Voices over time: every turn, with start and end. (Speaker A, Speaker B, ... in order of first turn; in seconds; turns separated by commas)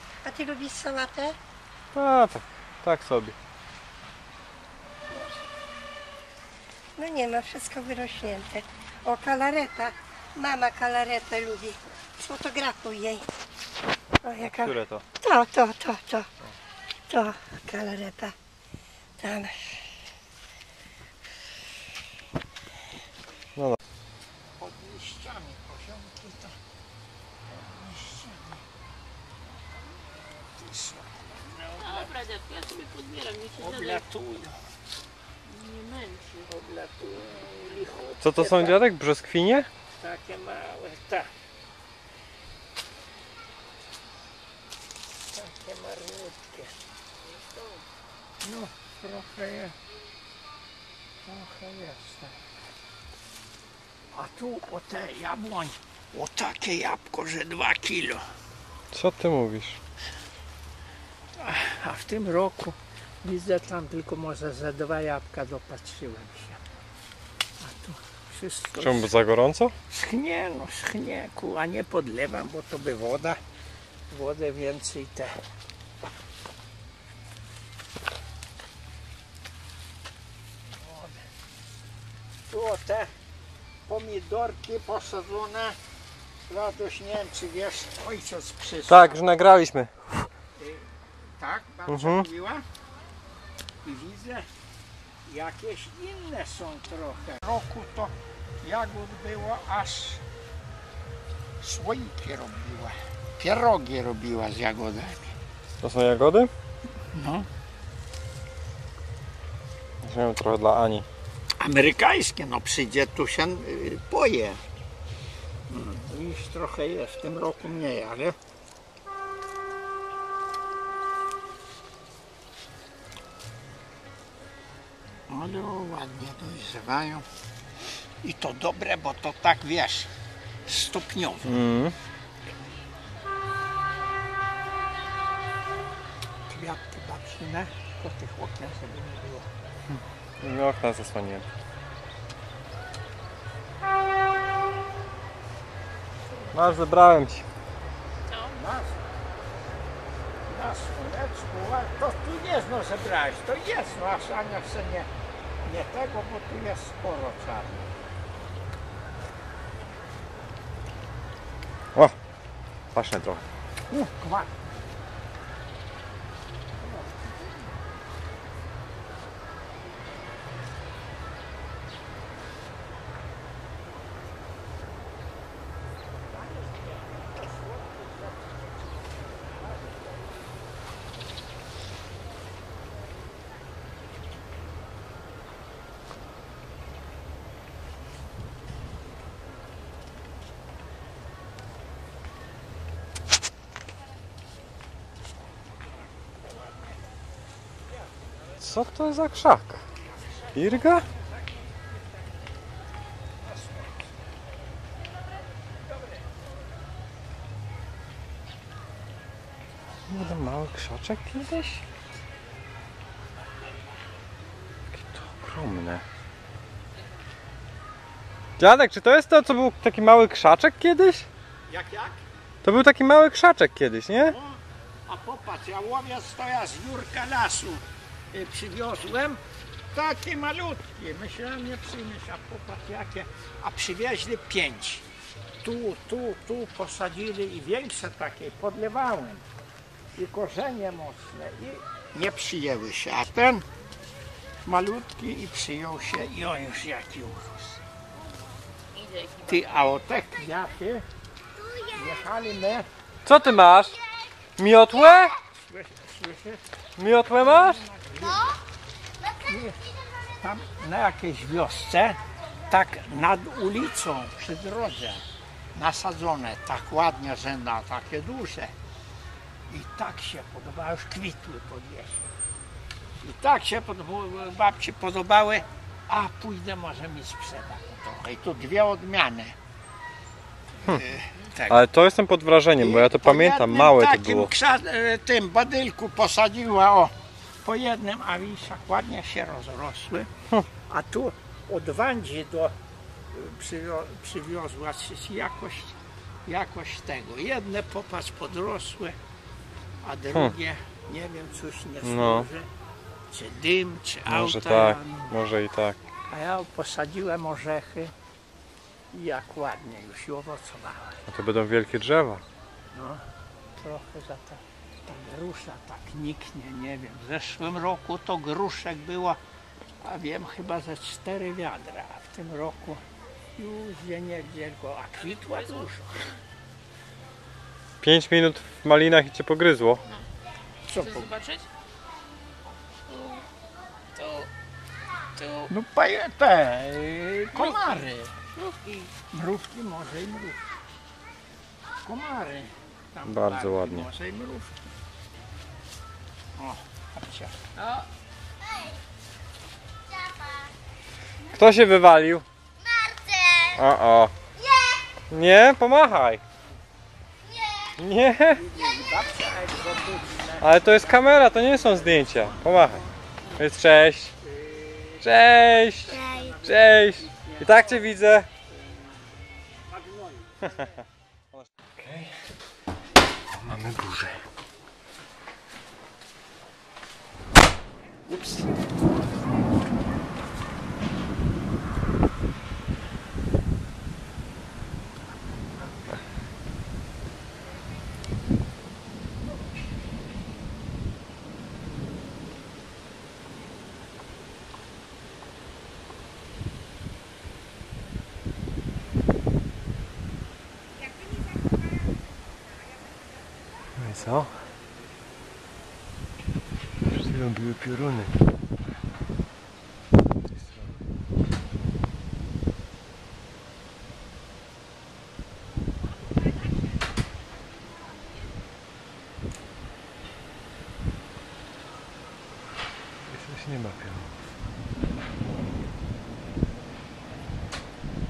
Speaker A: 0.2-1.4, Speaker B: 1.9-3.3, Speaker A: 5.1-5.5, Speaker A: 7.0-13.3, Speaker A: 14.2-16.3, Speaker B: 14.4-15.0, Speaker A: 17.1-18.3, Speaker A: 19.2-19.9, Speaker C: 24.6-26.6, Speaker C: 27.5-28.6, Speaker C: 30.6-32.1, Speaker D: 31.8-34.0, Speaker C: 33.5-34.6, Speaker D: 35.4-36.4, Speaker C: 36.3-38.8, Speaker B: 38.2-39.7, Speaker C: 40.0-41.3, Speaker C: 45.3-46.7, Speaker C: 48.4-49.7, Speaker C: 51.2-52.3, Speaker C: 54.1-58.2, Speaker B: 58.9-59.8, Speaker C: 61.4-66.6, Speaker C: 67.6-69.1, Speaker B: 68.8-69.7, Speaker C: 69.9-73.4, Speaker C: 74.1-75.4, Speaker C: 80.7-81.3, Speaker C: 82.5-83.1, Speaker C: 83.9-85.8, Speaker C: 86.5-89.2, Speaker B: 88.9-90.0, Speaker C: 90.6-92.6, Speaker B: 91.9-92.2, Speaker C: 93.8-94.5, Speaker C: 95.2-100.2, Speaker C: 101.6-105.3, Speaker B: 105.8-106.5, Speaker C: 107.1-107.5, Speaker B: 110.0-111.0, Speaker C: 111.6-114.6, Speaker C: 115.7-118.3, Speaker C: 125.3-127.2, Speaker C: 128.2-130.1, Speaker C: 130.7-131.6, Speaker B: 131.4-131.9, Speaker C: 136.5-139.5, Speaker B: 140.4-141.4, Speaker B: 146.5-147.4, Speaker C: 148.4-149.0, Speaker C: 150.5-155.1, Speaker C: 155.6-157.9, Speaker B: 162.9-163.4, Speaker C: 163.9-164.8, Speaker C: 166.8-167.7, Speaker C: 176.3-180.4, Speaker C: 196.3-197.0, Speaker B: 198.6-199.8, Speaker C: 200.1-202.2, Speaker B: 200.5-201.1, Speaker C: 203.4-204.1, Speaker C: 205.9-206.2, Speaker B: 210.1-211.8, Speaker B: 214.9-216.0, Speaker B: 218.6-221.3, Speaker C: 221.7-222.2, Speaker B: 222.6-224.3, Speaker C: 224.2-235.1, Speaker C: 235.6-239.4, Speaker C: 240.1-243.7, Speaker C: 244.6-247.8, Speaker D: 249.0-249.5, Speaker C: 249.4-251.0, Speaker C: 251.9-252.9, Speaker B: 253.2-254.0, Speaker B: 254.6-255.3, Speaker C: 255.6-256.6, Speaker B: 257.0-257.8, Speaker C: 257.3-258.6, Speaker C: 259.4-259.8, Speaker C: 260.4-265.2, Speaker C: 265.7-268.7, Speaker C: 269.7-272.3, Speaker C: 273.2-279.6, Speaker C: 280.9-281.8, Speaker B: 281.7-284.5, Speaker C: 282.8-290.3, Speaker C: 290.9-292.7, Speaker C: 293.3-299.1, Speaker C: 300.0-302.7, Speaker B: 302.0-302.5, Speaker C: 303.3-305.4, Speaker B: 304.3-306.0, Speaker C: 306.3-308.1, Speaker C: 309.1-311.2, Speaker B: 311.3-312.4, Speaker C: 312.9-313.2, Speaker C: 313.8-319.4, Speaker C: 320.0-323.0, Speaker C: 323.6-326.3, Speaker B: 328.0-330.0, Speaker C: 330.9-331.3, Speaker D: 331.0-331.7, Speaker D: 333.1-333.4, Speaker D: 334.2-334.5, Speaker D: 335.4-335.7, Speaker C: 335.7-338.3, Speaker D: 337.5-337.9, Speaker D: 338.6-339.1, Speaker C: 339.3-340.6, Speaker C: 342.0-344.7, Speaker B: 343.2-344.1, Speaker C: 346.6-347.6, Speaker D: 347.8-348.0, Speaker B: 351.5-352.4, Speaker B: 353.7-354.3, Speaker B: 355.3-356.4, Speaker B: 358.0-358.6, Speaker C: 358.5-362.7, Speaker B: 360.6-363.1, Speaker B: 363.6-364.3, Speaker C: 364.4-371.0, Speaker B: 365.2-368.5, Speaker B: 371.6-372.4, Speaker B: 373.6-374.4, Speaker B: 403.9-404.6, Speaker B: 407.0-408.4, Speaker B: 410.5-411.0, Speaker B: 423.2-424.4